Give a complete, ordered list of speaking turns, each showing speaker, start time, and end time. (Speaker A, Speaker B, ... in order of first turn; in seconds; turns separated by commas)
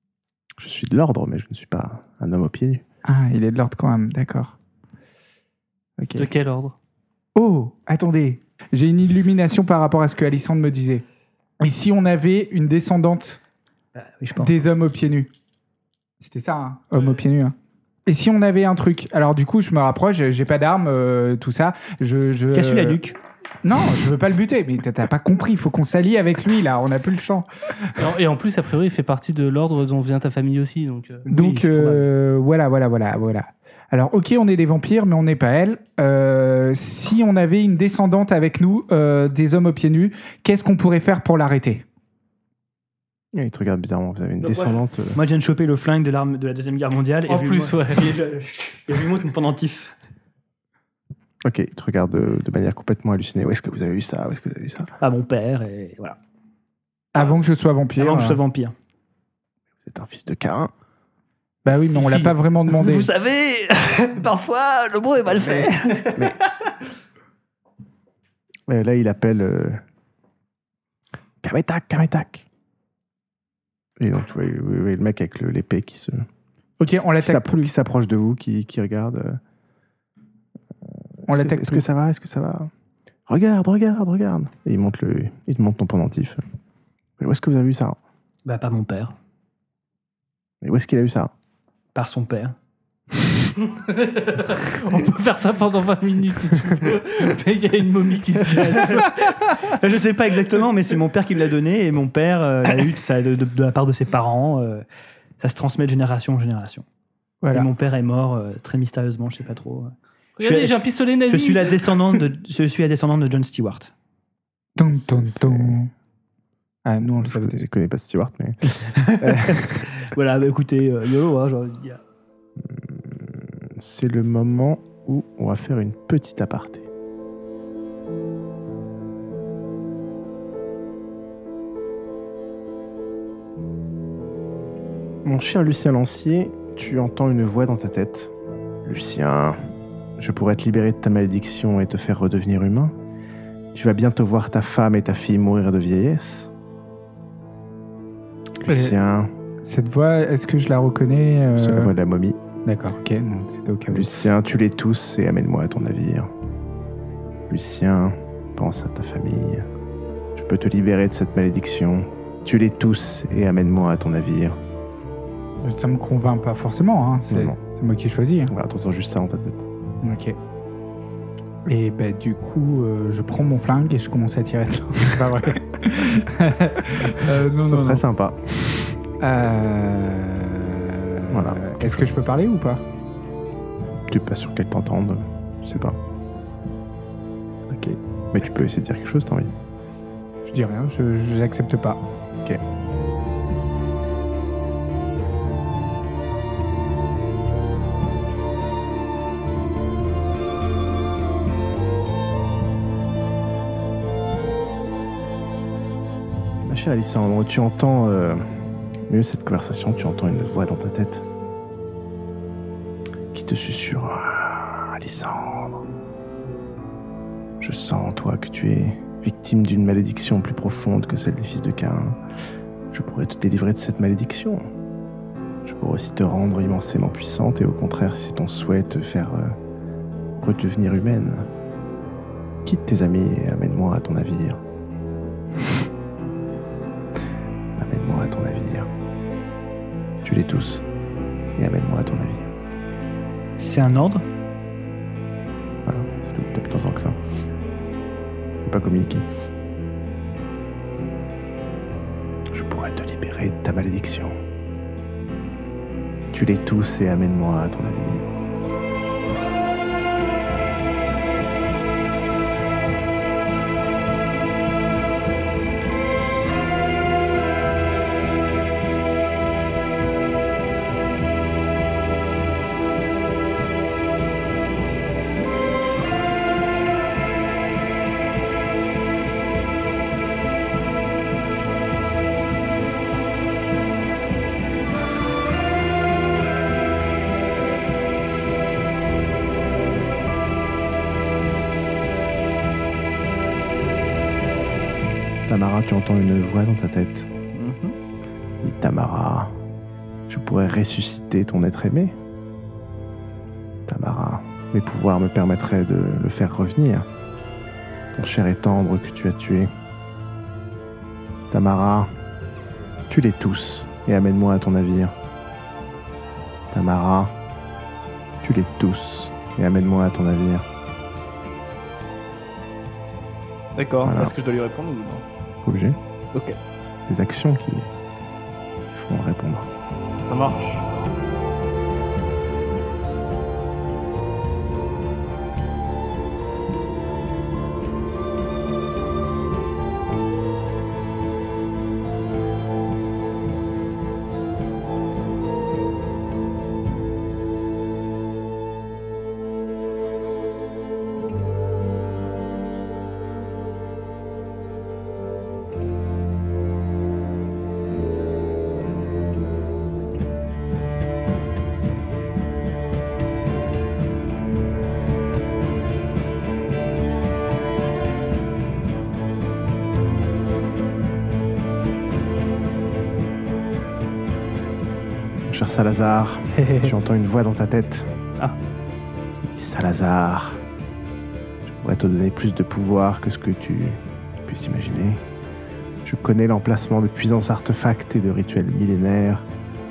Speaker A: 0.6-2.8, Speaker B: 3.0-4.5, Speaker B: 6.0-6.3, Speaker C: 6.1-6.7, Speaker B: 7.3-11.0, Speaker B: 11.6-13.4, Speaker D: 13.9-14.7, Speaker B: 14.3-15.3, Speaker B: 16.2-17.5, Speaker B: 18.1-23.0, Speaker D: 22.5-23.2, Speaker B: 23.6-28.1, Speaker C: 28.0-31.2, Speaker D: 31.3-32.1, Speaker B: 31.3-41.8, Speaker A: 43.3-45.2, Speaker D: 44.4-49.9, Speaker C: 47.3-48.2, Speaker A: 51.4-54.9, Speaker D: 55.0-56.2, Speaker B: 57.1-58.4, Speaker D: 58.0-58.7, Speaker A: 59.8-60.7, Speaker B: 61.6-63.1, Speaker D: 61.9-66.3, Speaker A: 68.7-69.8, Speaker A: 71.4-72.5, Speaker A: 74.0-76.3, Speaker B: 76.8-77.7, Speaker A: 76.9-79.4, Speaker A: 81.2-82.7, Speaker B: 81.3-81.8, Speaker A: 83.3-86.4, Speaker A: 87.2-88.0, Speaker D: 88.4-89.1, Speaker A: 90.6-91.3, Speaker D: 91.9-92.5, Speaker C: 93.6-99.1, Speaker D: 98.4-104.8, Speaker D: 105.4-106.8, Speaker B: 107.4-107.7, Speaker D: 107.5-113.9, Speaker C: 110.4-112.0, Speaker B: 114.8-115.9, Speaker A: 114.9-115.9, Speaker B: 116.8-117.6, Speaker A: 117.0-119.9, Speaker D: 118.9-122.0, Speaker A: 122.6-126.8, Speaker A: 135.2-138.3, Speaker A: 138.8-139.6, Speaker A: 140.2-142.9, Speaker A: 143.7-146.5, Speaker A: 148.6-149.3, Speaker B: 148.7-149.0, Speaker B: 149.6-151.9, Speaker A: 151.6-152.4, Speaker B: 152.6-154.1, Speaker A: 153.9-156.3, Speaker A: 157.5-159.7, Speaker A: 160.3-164.6, Speaker B: 165.6-168.5, Speaker A: 167.3-167.6, Speaker A: 168.5-169.7, Speaker B: 170.0-170.3, Speaker B: 171.7-178.0, Speaker A: 177.6-178.9, Speaker B: 179.2-182.8, Speaker A: 181.3-182.1, Speaker A: 184.1-186.0, Speaker A: 188.3-189.5, Speaker B: 190.4-192.0, Speaker A: 206.6-208.4, Speaker A: 209.1-211.2, Speaker A: 213.3-215.8, Speaker A: 217.6-222.2, Speaker A: 222.9-224.7, Speaker A: 225.6-229.6, Speaker A: 230.4-231.5, Speaker A: 232.6-234.6, Speaker A: 237.8-238.9, Speaker A: 240.2-240.8, Speaker A: 241.6-242.5, Speaker D: 243.6-244.2, Speaker A: 245.8-247.2, Speaker A: 248.6-249.2, Speaker A: 252.5-254.4, Speaker A: 256.3-258.2, Speaker A: 295.5-297.3, Speaker E: 297.5-297.9, Speaker A: 298.6-299.5, Speaker A: 300.3-302.1, Speaker A: 303.9-307.1, Speaker A: 308.1-309.7, Speaker A: 311.5-312.1, Speaker A: 313.1-315.1, Speaker A: 316.7-317.3, Speaker A: 318.4-320.6, Speaker E: 323.8-325.2, Speaker A: 324.0-324.3, Speaker A: 325.6-326.0, Speaker A: 327.0-327.9, Speaker A: 328.9-329.7, Speaker E: 330.2-330.8, Speaker A: 375.4-378.1, Speaker C: 376.6-376.9, Speaker A: 379.4-380.6, Speaker A: 381.6-385.2, Speaker A: 386.0-389.5